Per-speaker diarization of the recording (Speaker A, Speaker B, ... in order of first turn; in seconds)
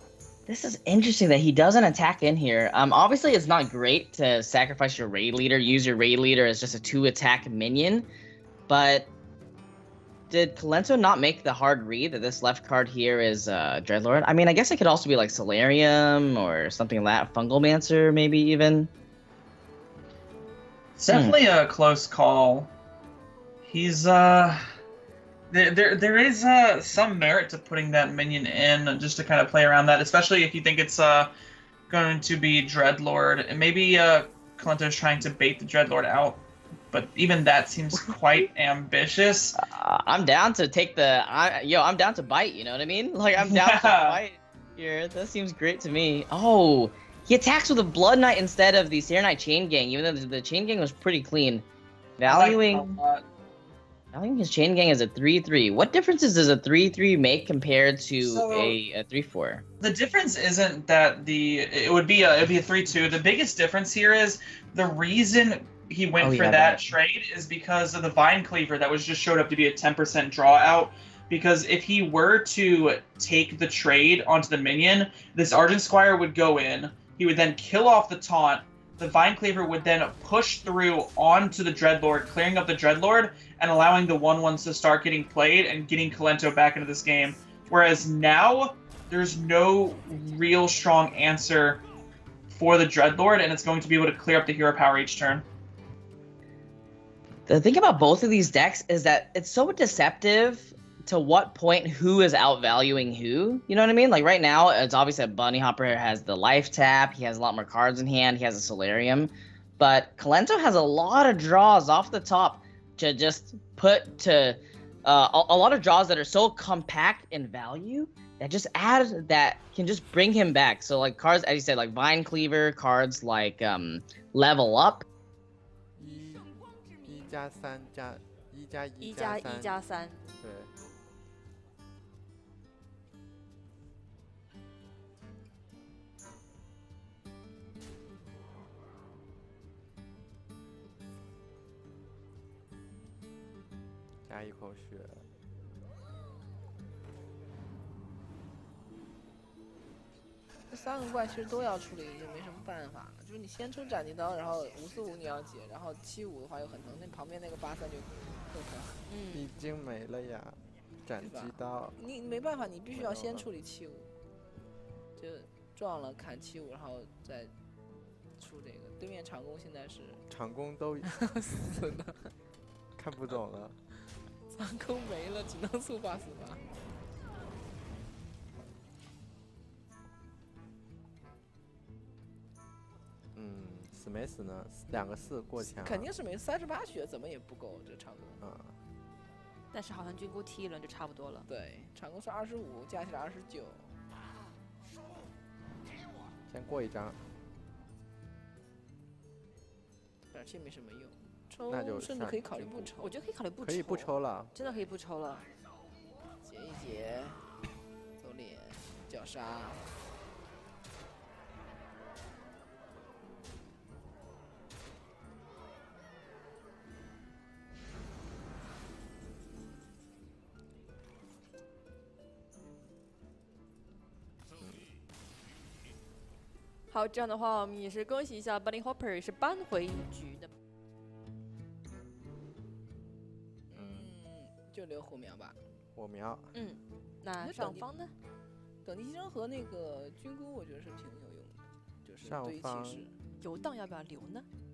Speaker A: 0.5-8.1, 8.7-9.1, 10.3-18.9, 21.1-21.4, 39.5-51.6, 52.2-53.0, 54.1-59.6, 66.2-66.8, 97.5-125.0
Speaker B: 21.0-22.7, 23.6-24.6, 25.5-31.3, 31.9-36.4, 36.9-39.6, 43.4-44.2, 52.3-53.2, 58.2-58.8, 59.8-91.8, 92.5-95.4
Speaker C: 126.0-126.5, 127.0-130.7, 144.2-145.3, 159.3-162.0, 162.9-163.5, 170.3-171.1, 172.9-173.8, 183.3-186.1, 188.4-188.8, 196.5-197.2, 201.7-202.9, 203.6-204.5, 224.6-224.8, 233.7-234.1, 235.9-236.5, 242.2-243.1
Speaker D: 129.0-130.2, 159.1-159.5, 189.7-191.5, 203.0-205.5, 226.9-230.5, 236.5-238.1, 243.4-244.4
Speaker E: 150.7-159.0, 161.2-164.1, 165.2-167.5, 168.4-170.2, 171.0-172.3, 174.5-176.6, 184.9-188.4, 191.5-194.0, 200.3-203.2, 206.4-207.5, 208.2-209.9, 233.7-235.6, 237.4-237.9, 238.8-243.2